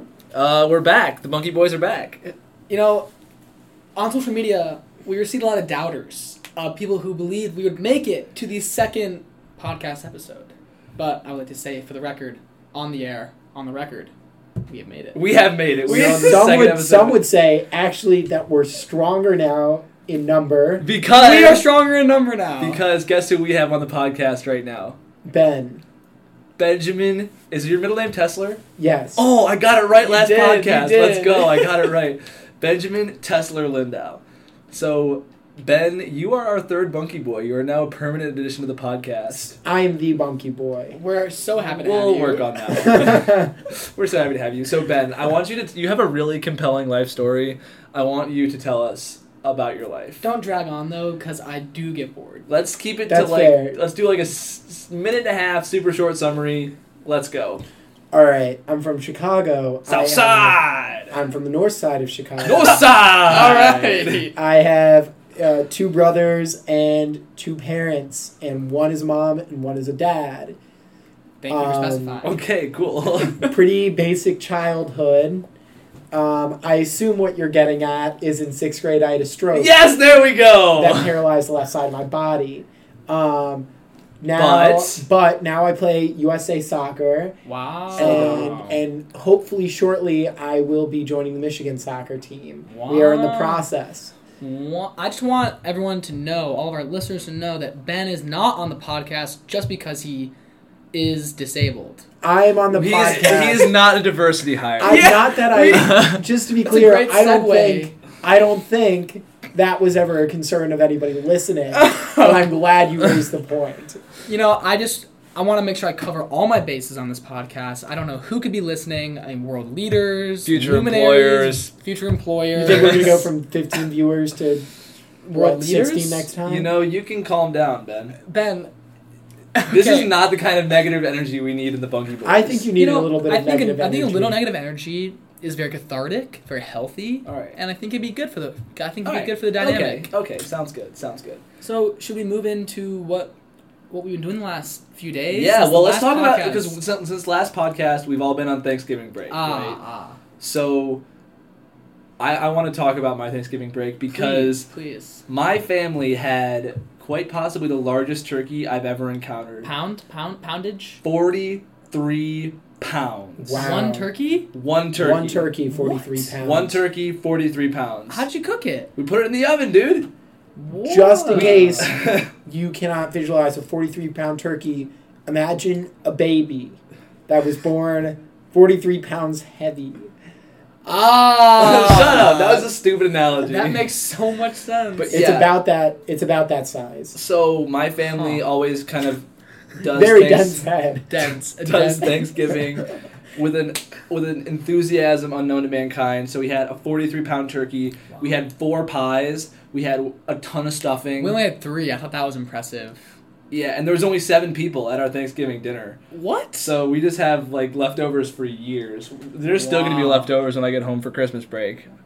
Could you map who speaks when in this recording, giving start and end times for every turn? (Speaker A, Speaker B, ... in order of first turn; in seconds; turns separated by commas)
Speaker A: 0.3-2.3, Speaker B: 2.7-3.1, Speaker B: 4.0-14.1, Speaker B: 14.7-15.2, Speaker A: 15.1-17.2, Speaker B: 15.8-16.5, Speaker C: 15.9-20.9, Speaker A: 20.8-21.6, Speaker B: 21.1-22.8, Speaker A: 22.6-24.9, Speaker C: 25.2-25.8, Speaker A: 26.6-28.6, Speaker C: 28.8-29.2, Speaker A: 29.2-39.5, Speaker B: 30.0-31.9, Speaker C: 39.3-41.0, Speaker B: 40.9-42.9, Speaker A: 41.6-50.2, Speaker C: 42.9-43.5, Speaker B: 50.2-52.5, Speaker A: 52.5-57.6, Speaker C: 53.1-53.8, Speaker C: 58.1-60.6, Speaker A: 59.9-61.1, Speaker C: 61.1-62.9, Speaker A: 62.4-64.3, Speaker B: 63.2-64.3, Speaker C: 64.3-70.6, Speaker B: 71.4-72.3, Speaker C: 71.5-72.2, Speaker A: 72.2-73.4, Speaker C: 73.4-75.5, Speaker C: 76.1-79.7, Speaker A: 79.5-81.1, Speaker C: 80.8-83.7, Speaker C: 84.2-87.3, Speaker A: 84.3-85.0, Speaker B: 87.5-88.8, Speaker A: 87.9-88.6, Speaker C: 88.0-94.1, Speaker B: 92.7-93.7, Speaker B: 94.4-100.3, Speaker B: 100.9-102.0, Speaker C: 102.2-103.8, Speaker A: 102.7-105.2, Speaker C: 104.8-114.0, Speaker B: 104.8-107.9, Speaker A: 105.7-106.2, Speaker B: 111.7-112.5, Speaker B: 114.3-123.3, Speaker A: 120.5-121.7, Speaker C: 122.5-124.7, Speaker C: 125.2-126.7, Speaker B: 125.3-126.3, Speaker A: 126.5-128.2, Speaker B: 128.2-128.7, Speaker B: 129.5-130.1, Speaker A: 129.7-132.7, Speaker C: 132.2-134.4, Speaker B: 132.8-140.1, Speaker A: 137.2-137.6, Speaker A: 139.0-141.4, Speaker B: 141.6-143.3, Speaker B: 143.9-146.8, Speaker A: 145.3-149.8, Speaker B: 149.3-150.2, Speaker A: 150.4-151.0, Speaker A: 152.2-154.7, Speaker B: 154.1-155.2, Speaker A: 155.3-159.7, Speaker B: 159.6-161.0, Speaker A: 161.0-163.8, Speaker C: 163.4-164.1, Speaker B: 163.6-164.5, Speaker A: 164.5-165.5, Speaker C: 164.9-166.8, Speaker B: 165.7-166.3, Speaker A: 166.4-168.2, Speaker B: 168.1-168.9, Speaker A: 168.9-170.1, Speaker B: 170.6-171.9, Speaker C: 170.8-180.1, Speaker A: 171.3-172.3, Speaker B: 180.8-182.7, Speaker A: 181.6-183.9, Speaker B: 183.4-185.2, Speaker A: 184.9-185.5, Speaker C: 185.1-187.1, Speaker A: 187.1-189.2, Speaker B: 188.1-188.4, Speaker A: 189.8-190.6, Speaker C: 189.9-191.1, Speaker B: 191.1-192.3, Speaker A: 191.6-201.4, Speaker B: 201.2-203.0, Speaker A: 203.5-206.0, Speaker B: 206.1-206.7, Speaker A: 206.6-211.9, Speaker B: 209.5-210.3